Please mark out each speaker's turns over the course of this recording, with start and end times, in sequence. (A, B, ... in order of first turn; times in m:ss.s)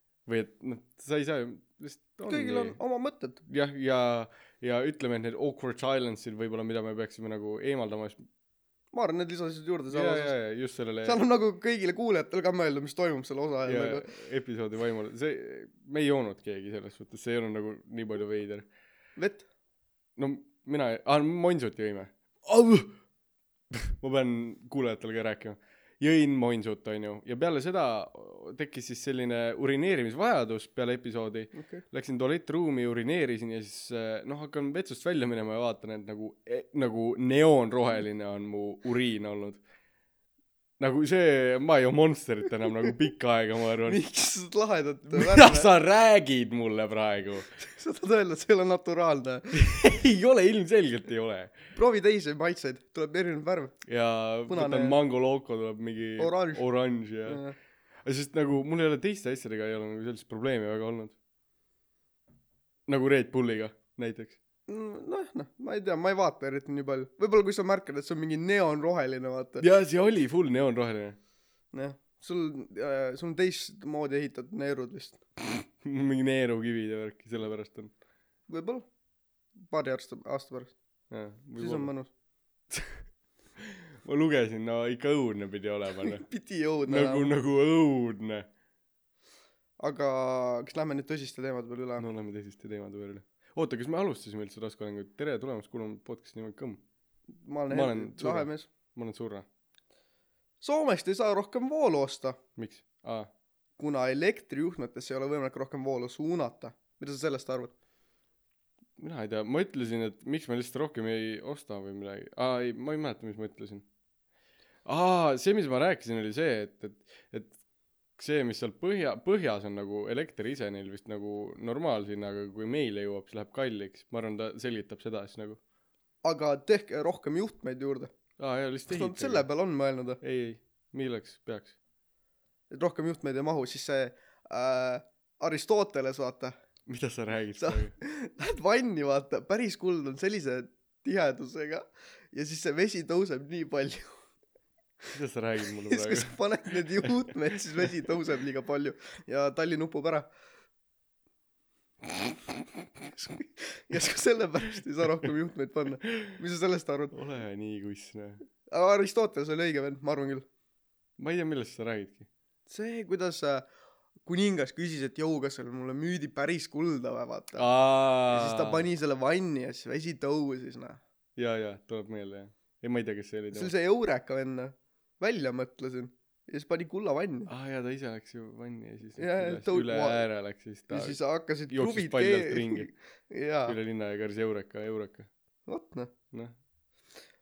0:00.2-0:02.8 A
0:02.2-0:03.4 B
0:03.5-0:08.2 A
0:08.9-0:10.4 B
0:09.9-0:11.2 A
0:11.0-0:14.0 B
0:13.6-0:18.7 A
0:19.2-0:19.4 B
0:20.2-0:23.0 A
0:23.7-0:39.6 A
0:31.5-0:31.8 B
0:40.8-0:44.0 A
0:43.8-0:45.7 B
0:45.1-0:47.5 A
0:47.6-0:49.6 B
0:49.5-0:51.5 A
0:51.7-0:53.8 B
0:53.8-0:57.4 A
0:54.5-0:55.0 B
0:56.2-0:56.6 B
0:57.2-0:57.5 B
0:58.0-1:01.1 A
1:02.9-1:04.4 A
1:04.7-1:09.6 B
1:09.6-1:11.2 A
1:11.7-1:15.2 B
1:15.6-1:17.9 A
1:18.5-1:18.9 B
1:19.6-1:20.7 B
1:21.1-1:21.9 A
1:21.6-1:22.1 B
1:24.0-1:26.2 A
1:26.0-1:27.3 B
1:26.8-1:28.5 A
1:29.8-1:32.0 B
1:32.0-1:36.8 A
1:37.4-1:38.7 B
1:37.7-1:39.4 A
1:40.6-1:42.4 B
1:42.6-1:43.3 A
1:43.8-1:47.7 B
1:49.0-1:53.8 A
1:54.8-1:57.5 A
1:58.2-2:05.6 A
2:06.2-2:08.1 B
2:08.4-2:09.5 A
2:08.9-2:10.2 B
2:10.2-2:11.7 A
2:12.7-2:16.5 B
2:16.9-2:17.9 A
2:17.6-2:24.2 B
2:25.1-2:27.3 A
2:25.8-2:30.3 B
2:33.1-2:37.1 B
2:36.0-2:36.4 A
2:37.1-2:38.4 A
2:38.7-2:40.5 B
2:41.2-2:42.3 A
2:42.7-2:43.7 B
2:44.2-2:47.7 B
2:47.6-2:48.8 A
2:48.3-2:51.0 B
2:51.4-2:53.7 A
2:53.5-2:57.5 B
2:57.5-3:01.2 A
2:59.2-3:00.3 B
3:00.9-3:03.8 B
3:01.7-3:02.9 A
3:03.6-3:05.3 A
3:05.7-3:06.1 B